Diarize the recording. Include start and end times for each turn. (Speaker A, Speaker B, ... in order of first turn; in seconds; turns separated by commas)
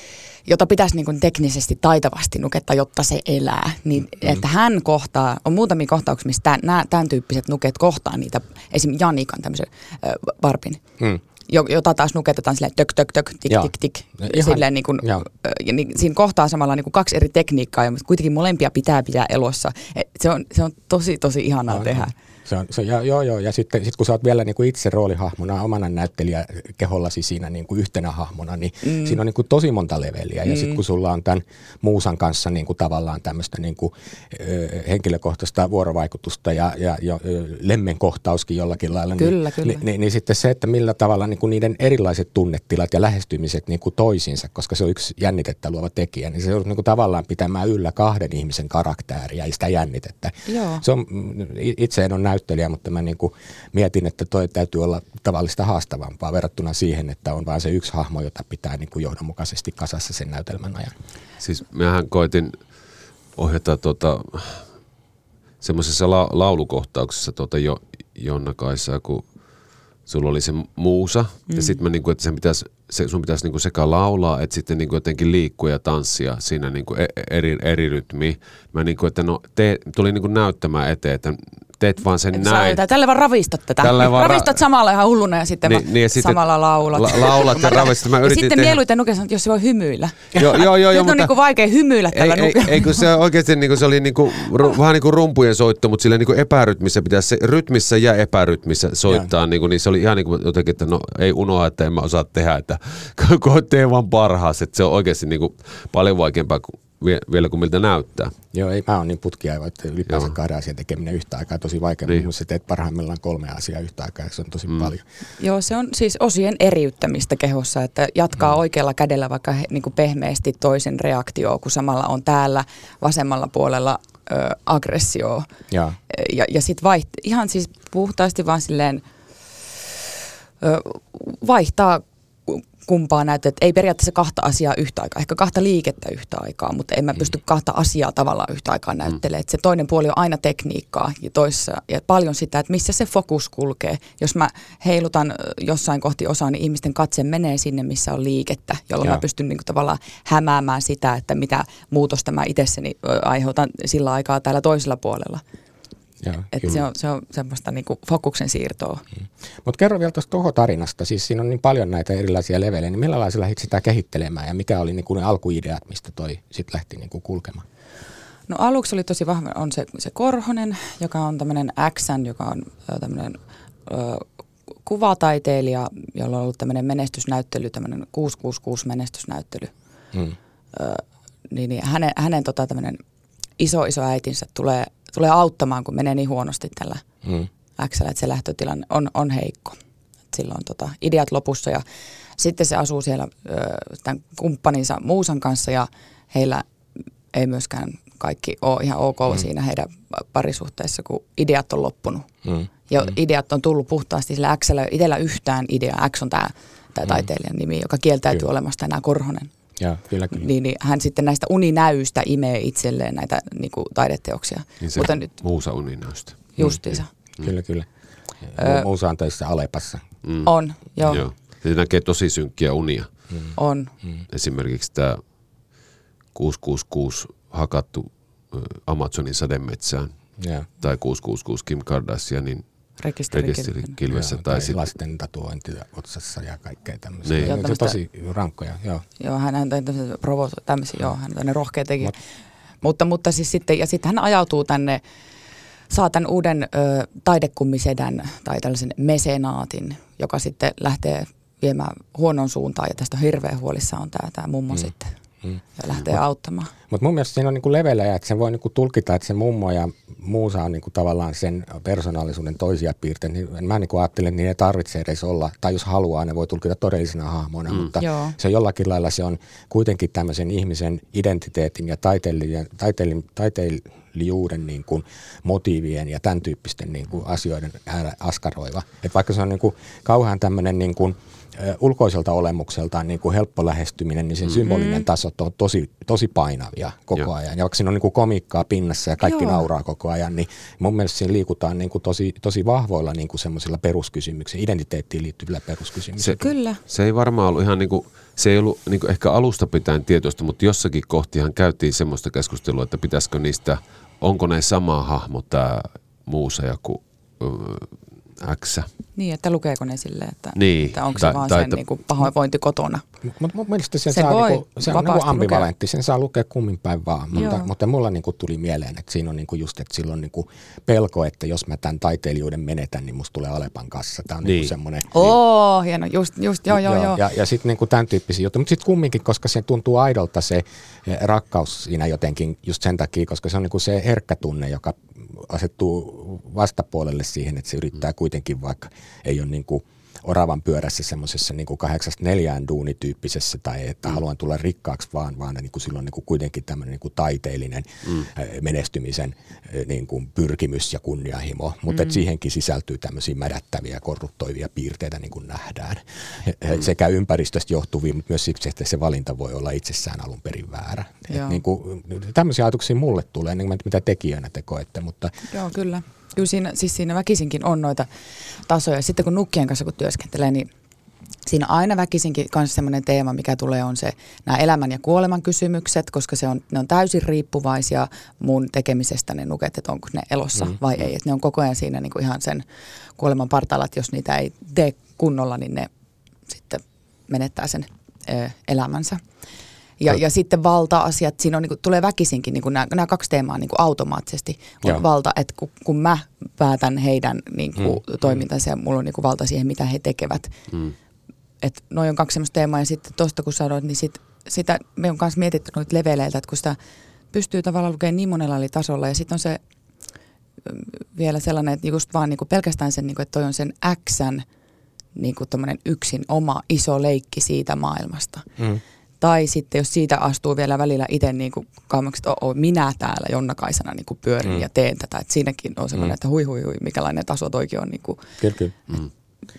Speaker A: 0.5-10.8, Speaker A: 11.5-22.1, Speaker B: 13.5-15.2, Speaker B: 21.7-60.9, Speaker A: 28.8-29.2, Speaker A: 30.5-30.8, Speaker A: 39.2-39.8, Speaker A: 50.5-50.8, Speaker C: 61.4-62.6, Speaker C: 63.4-64.7, Speaker C: 65.6-69.2, Speaker C: 70.1-82.8, Speaker A: 71.5-71.8, Speaker A: 82.3-93.1, Speaker C: 83.8-84.6, Speaker C: 85.6-88.8, Speaker C: 90.4-91.3, Speaker C: 92.1-108.3, Speaker B: 108.5-115.0, Speaker C: 110.1-110.3, Speaker A: 115.4-125.5, Speaker B: 125.7-126.0, Speaker A: 126.1-129.0, Speaker A: 129.6-129.9, Speaker A: 130.6-155.4, Speaker B: 156.2-156.8, Speaker A: 156.5-159.0, Speaker B: 159.6-167.6, Speaker A: 168.5-174.2, Speaker A: 174.8-179.7, Speaker A: 180.7-183.0, Speaker A: 183.6-187.0, Speaker A: 187.8-189.8, Speaker A: 190.3-191.8, Speaker A: 192.4-196.7, Speaker A: 197.3-202.3, Speaker B: 202.4-203.1, Speaker A: 202.9-209.5, Speaker B: 209.8-210.5, Speaker A: 210.3-215.3, Speaker C: 214.8-217.5, Speaker A: 216.6-217.1, Speaker B: 217.4-217.9, Speaker B: 218.4-220.0, Speaker A: 218.6-218.9, Speaker C: 220.2-220.5, Speaker A: 220.4-221.2, Speaker C: 221.1-223.1, Speaker A: 223.6-223.9, Speaker C: 224.3-225.2, Speaker C: 226.3-230.2, Speaker B: 230.4-230.7, Speaker C: 230.8-232.6, Speaker A: 233.0-233.9, Speaker C: 233.3-234.8, Speaker B: 234.1-239.0, Speaker C: 237.2-237.5, Speaker A: 237.4-238.0, Speaker A: 239.2-242.2, Speaker A: 242.8-245.0, Speaker A: 245.9-255.1, Speaker A: 255.8-256.7, Speaker B: 256.9-296.4, Speaker A: 268.0-268.4, Speaker A: 284.6-285.1, Speaker A: 289.2-289.6, Speaker C: 296.2-308.9, Speaker A: 296.4-296.8, Speaker A: 309.1-313.0, Speaker C: 310.6-311.8, Speaker B: 313.3-325.3, Speaker A: 314.1-315.7, Speaker A: 317.3-317.7, Speaker C: 324.4-324.7, Speaker A: 325.1-327.2, Speaker B: 326.7-365.3, Speaker A: 351.9-352.2, Speaker A: 361.3-361.6, Speaker A: 365.5-368.1, Speaker A: 368.6-370.7, Speaker A: 371.4-382.6, Speaker A: 383.2-385.9, Speaker A: 386.5-389.2, Speaker A: 390.0-400.6, Speaker A: 401.6-406.8, Speaker A: 407.3-409.6, Speaker A: 410.6-414.4, Speaker A: 415.1-418.4, Speaker A: 419.2-428.2, Speaker B: 428.4-428.8